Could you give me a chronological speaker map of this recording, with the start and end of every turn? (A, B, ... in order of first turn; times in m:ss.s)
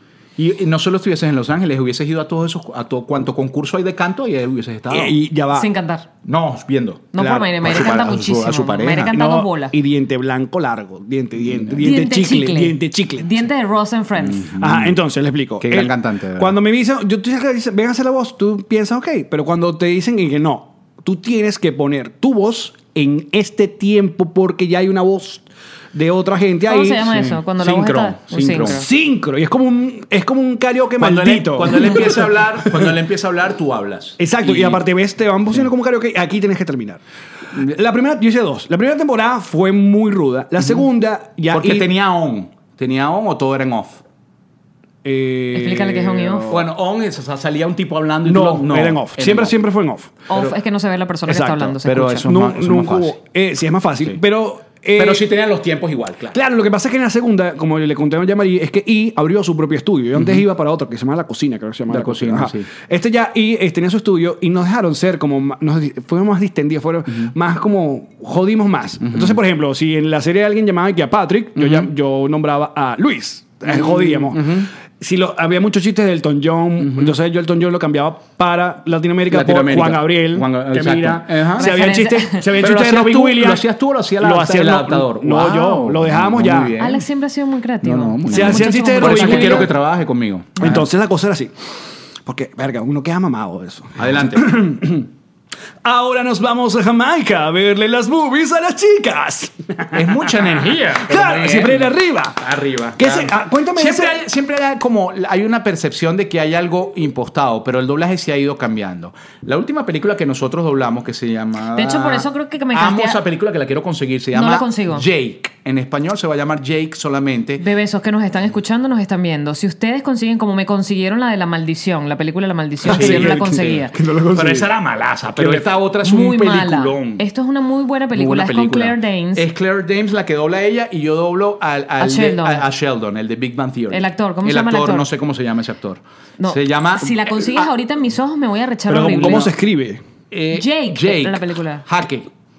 0:00.4-0:05.2 A
0:04.9-0:05.7 B
0:05.5-0:06.1 C
0:06.2-0:09.2 A
0:07.1-0:09.7 C
0:09.1-0:13.3 B
0:11.4-0:11.9 A
0:11.8-0:14.5 C
0:14.2-0:15.0 A
0:14.6-0:27.1 B
0:15.6-0:16.6 A
0:26.7-0:28.8 C
0:27.1-0:28.8 A
0:28.6-0:33.0 B
0:31.0-0:34.8 A
0:34.2-0:41.9 B
0:40.6-0:40.9 A
0:41.5-0:44.0 A
0:45.0-0:46.7 B
0:45.5-0:46.6 C
0:46.5-0:49.6 A
0:48.2-0:50.1 B
0:50.3-0:52.2 C
0:50.3-0:50.6 A
0:51.3-0:55.3 B
0:51.8-0:53.2 A
0:55.0-0:56.4 A
0:56.3-1:23.6 B
1:00.2-1:00.4 A
1:01.9-1:02.7 A
1:09.0-1:09.4 A
1:11.6-1:11.9 A
1:13.6-1:14.7 A
1:16.8-1:17.1 A
1:19.3-1:21.7 A
1:21.6-1:22.5 C
1:22.6-1:27.1 A
1:24.2-1:26.7 B
1:26.8-1:29.7 C
1:27.8-1:30.9 A
1:28.3-1:29.7 B
1:30.6-1:31.6 B
1:32.2-1:35.1 B
1:34.0-1:34.6 A
1:35.8-1:42.4 B
1:39.9-1:57.6 A
1:43.0-1:44.2 B
1:51.8-1:53.2 C
1:54.3-1:55.0 C
1:57.6-2:03.9 C
2:02.8-2:04.7 B
2:02.9-2:07.2 A
2:05.4-2:05.7 B
2:06.0-2:09.4 C
2:08.2-2:17.7 A
2:12.0-2:12.7 C
2:13.9-2:15.0 C
2:16.4-2:19.5 C
2:18.9-2:20.0 B
2:19.2-2:19.5 A
2:20.3-2:22.3 A
2:20.5-2:21.8 C